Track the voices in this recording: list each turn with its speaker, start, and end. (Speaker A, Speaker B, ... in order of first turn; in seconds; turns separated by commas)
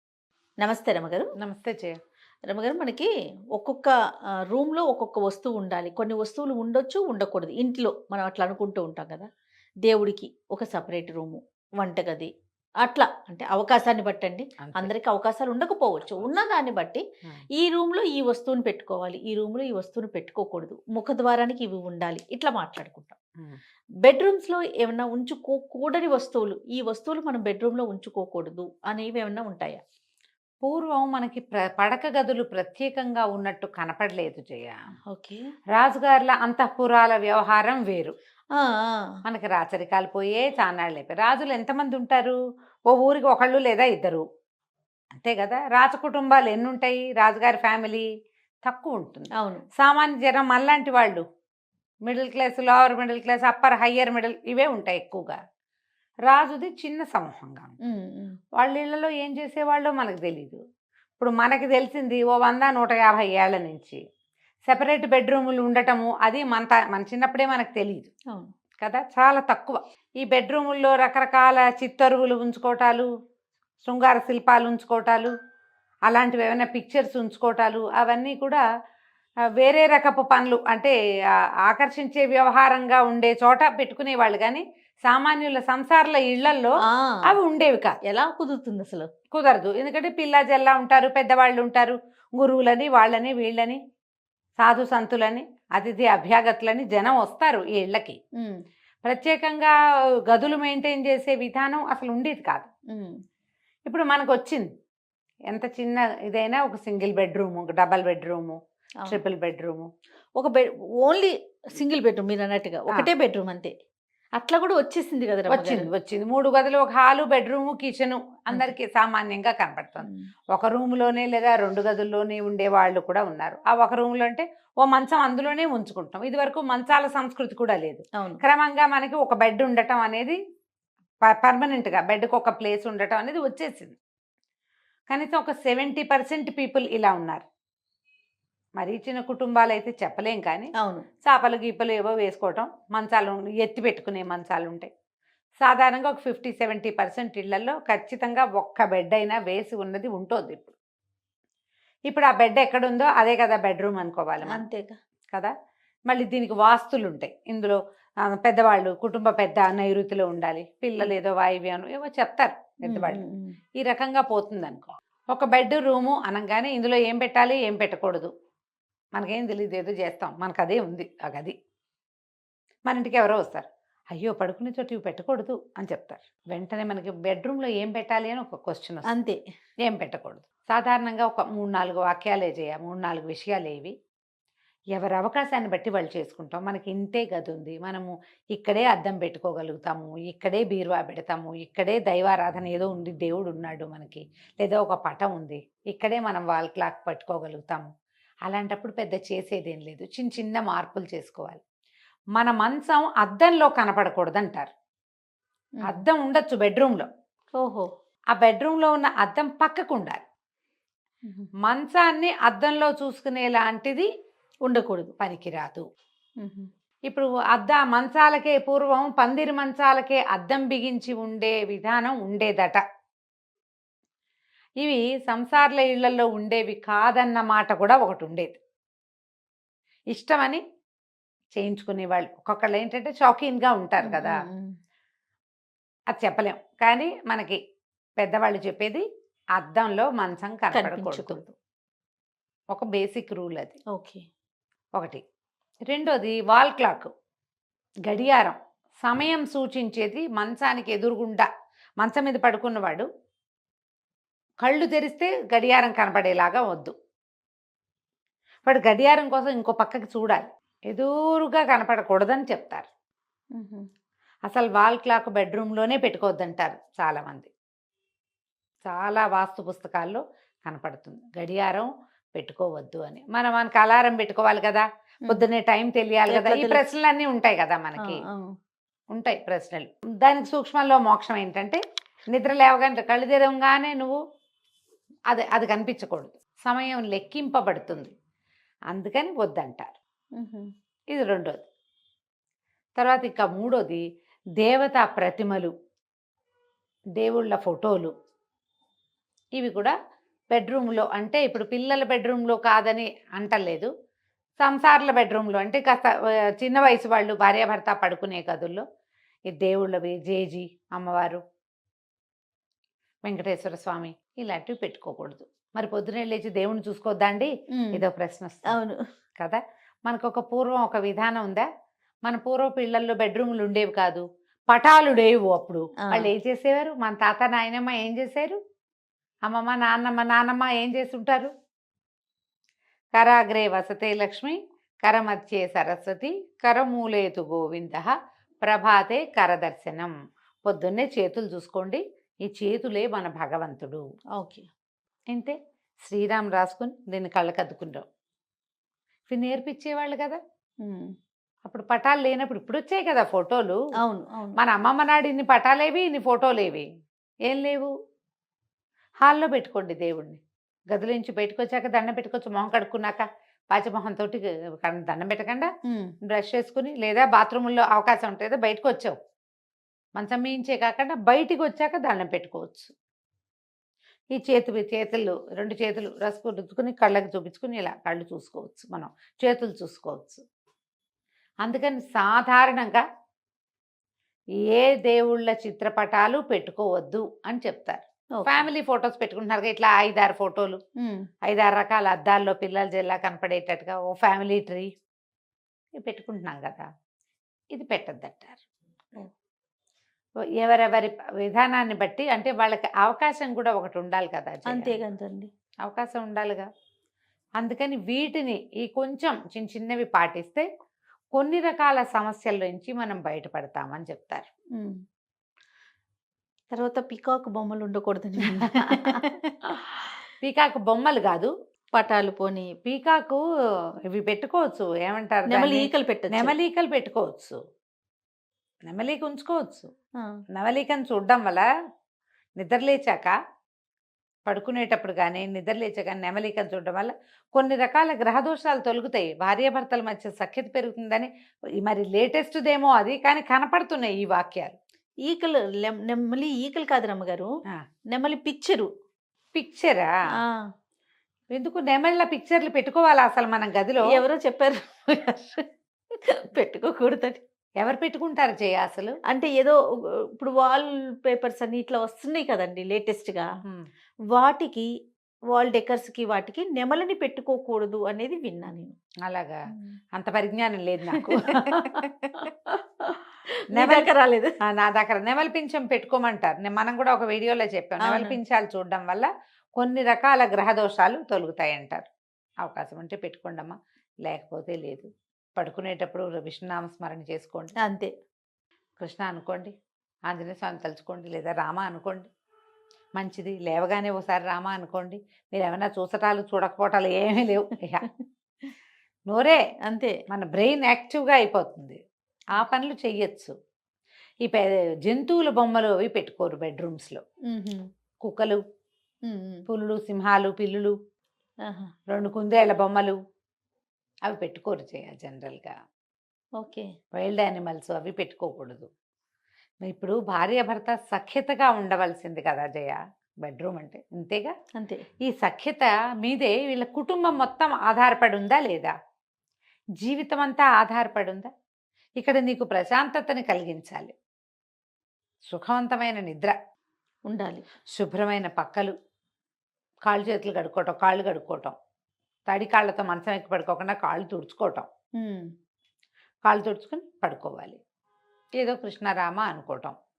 Speaker A: 0.6-1.3, Speaker B: 1.4-1.9, Speaker A: 2.5-3.9, Speaker A: 4.5-9.3, Speaker A: 9.8-12.3, Speaker A: 12.8-17.0, Speaker B: 14.6-14.9, Speaker A: 17.6-23.1, Speaker A: 24.0-29.8, Speaker B: 30.6-34.8, Speaker A: 35.1-35.4, Speaker B: 35.7-38.1, Speaker A: 38.5-39.1, Speaker B: 39.2-42.4, Speaker B: 42.9-44.2, Speaker B: 45.1-48.1, Speaker B: 48.6-51.2, Speaker A: 49.3-49.6, Speaker B: 52.0-55.4, Speaker B: 56.3-57.7, Speaker A: 57.9-58.4, Speaker B: 58.6-60.6, Speaker B: 61.2-64.0, Speaker B: 64.7-68.1, Speaker B: 68.8-73.1, Speaker B: 73.8-75.3, Speaker B: 76.1-78.6, Speaker B: 79.6-80.9, Speaker B: 81.6-86.7, Speaker A: 86.8-87.4, Speaker B: 87.3-88.0, Speaker A: 88.0-89.1, Speaker B: 89.3-93.8, Speaker B: 94.6-98.2, Speaker B: 99.0-99.7, Speaker B: 100.3-102.7, Speaker B: 103.9-104.7, Speaker B: 105.5-109.9, Speaker A: 110.4-113.7, Speaker A: 114.4-115.9, Speaker B: 115.5-130.4, Speaker A: 120.0-120.3, Speaker A: 128.1-128.4, Speaker B: 131.2-134.0, Speaker B: 135.1-137.4, Speaker B: 138.8-140.7, Speaker A: 140.8-141.0, Speaker B: 141.2-144.9, Speaker B: 145.6-150.7, Speaker B: 152.1-154.6, Speaker A: 154.4-154.9, Speaker B: 156.1-163.2, Speaker A: 162.8-163.6, Speaker B: 163.8-168.3, Speaker B: 169.2-171.5, Speaker B: 172.9-179.1, Speaker A: 179.1-179.4, Speaker B: 179.8-183.9, Speaker B: 184.9-197.9, Speaker B: 198.4-201.6, Speaker B: 202.3-204.7, Speaker B: 205.8-207.1, Speaker A: 207.6-207.9, Speaker B: 208.3-210.2, Speaker B: 211.6-214.1, Speaker A: 214.7-215.1, Speaker B: 215.2-215.8, Speaker A: 216.4-216.7, Speaker B: 217.1-222.8, Speaker B: 224.8-228.6, Speaker B: 230.1-230.6, Speaker B: 231.5-234.3, Speaker A: 234.0-234.7, Speaker B: 236.1-237.6, Speaker B: 238.2-239.0, Speaker B: 239.6-241.4, Speaker A: 240.7-241.5, Speaker B: 242.7-243.8, Speaker A: 243.9-244.2, Speaker B: 244.9-245.2, Speaker B: 245.9-247.1, Speaker B: 248.1-251.5, Speaker B: 252.0-253.1, Speaker B: 254.6-256.9, Speaker B: 258.6-262.9, Speaker A: 263.5-263.8, Speaker B: 264.5-267.5, Speaker B: 268.8-278.2, Speaker A: 276.3-276.9, Speaker A: 278.0-278.5, Speaker B: 279.1-281.8, Speaker B: 282.3-284.2, Speaker B: 285.3-288.1, Speaker B: 288.9-289.9, Speaker A: 290.4-290.6, Speaker B: 291.1-291.6, Speaker B: 293.0-294.0, Speaker B: 294.6-295.7, Speaker B: 297.2-298.1, Speaker B: 299.6-299.9, Speaker B: 300.5-303.9, Speaker B: 304.6-308.8, Speaker B: 309.5-311.4, Speaker B: 313.2-318.8, Speaker A: 317.7-318.0, Speaker A: 318.7-319.0, Speaker B: 319.4-321.7, Speaker B: 322.2-328.6, Speaker B: 329.5-331.5, Speaker B: 333.1-338.1, Speaker B: 338.6-340.1, Speaker B: 340.6-344.0, Speaker A: 344.4-344.6, Speaker B: 345.3-348.0, Speaker B: 349.3-350.4, Speaker A: 350.8-351.1, Speaker B: 351.6-353.8, Speaker A: 354.0-354.6, Speaker B: 354.6-356.9, Speaker B: 357.5-357.9, Speaker B: 359.2-360.4, Speaker B: 360.9-365.7, Speaker A: 365.9-366.1, Speaker B: 366.2-369.2, Speaker B: 370.2-372.9, Speaker B: 374.3-380.4, Speaker B: 381.6-383.0, Speaker B: 384.7-390.8, Speaker A: 388.4-388.7, Speaker B: 391.5-394.9, Speaker B: 396.0-396.8, Speaker B: 397.7-398.6, Speaker B: 400.6-405.0, Speaker A: 404.7-405.5, Speaker B: 405.8-406.7, Speaker B: 407.6-410.7, Speaker B: 411.3-414.5, Speaker A: 416.7-419.5, Speaker B: 418.5-419.2, Speaker B: 420.4-421.5, Speaker A: 421.9-422.7, Speaker B: 422.8-423.4, Speaker B: 424.1-427.6, Speaker A: 425.5-426.5, Speaker B: 428.9-429.9, Speaker B: 430.5-431.6, Speaker B: 432.6-433.3, Speaker B: 434.5-441.3, Speaker B: 441.8-444.8, Speaker A: 445.2-447.5, Speaker A: 448.1-448.9, Speaker B: 449.5-450.1, Speaker B: 451.5-454.0, Speaker A: 454.0-455.6, Speaker A: 456.2-457.4, Speaker B: 457.8-459.1, Speaker A: 459.3-459.8, Speaker A: 460.4-463.5, Speaker A: 464.3-464.9, Speaker A: 465.5-468.9, Speaker B: 469.2-469.6, Speaker B: 470.1-472.0, Speaker A: 471.1-472.5, Speaker B: 473.7-474.1, Speaker A: 473.7-474.5, Speaker B: 474.6-482.1, Speaker A: 478.0-478.4, Speaker B: 482.6-487.7, Speaker A: 487.8-488.1, Speaker B: 489.0-489.7, Speaker B: 490.3-492.3, Speaker B: 493.2-498.1, Speaker B: 499.3-499.6, Speaker A: 499.9-500.1, Speaker B: 500.3-502.0, Speaker B: 502.5-503.5, Speaker B: 504.4-507.2, Speaker A: 507.5-507.8, Speaker B: 508.2-508.6, Speaker A: 509.3-509.6, Speaker B: 509.7-510.9, Speaker A: 511.6-511.9, Speaker B: 512.1-513.2, Speaker B: 514.3-515.7, Speaker A: 516.6-516.9, Speaker B: 517.1-518.9, Speaker B: 519.8-524.5, Speaker A: 524.8-525.0, Speaker B: 525.2-528.9, Speaker B: 530.0-531.5, Speaker B: 532.2-534.1, Speaker B: 535.5-536.5, Speaker A: 537.3-537.6, Speaker B: 537.9-538.9, Speaker B: 540.0-541.7, Speaker B: 542.5-544.9, Speaker A: 545.2-545.4, Speaker B: 546.4-547.8, Speaker B: 548.6-549.9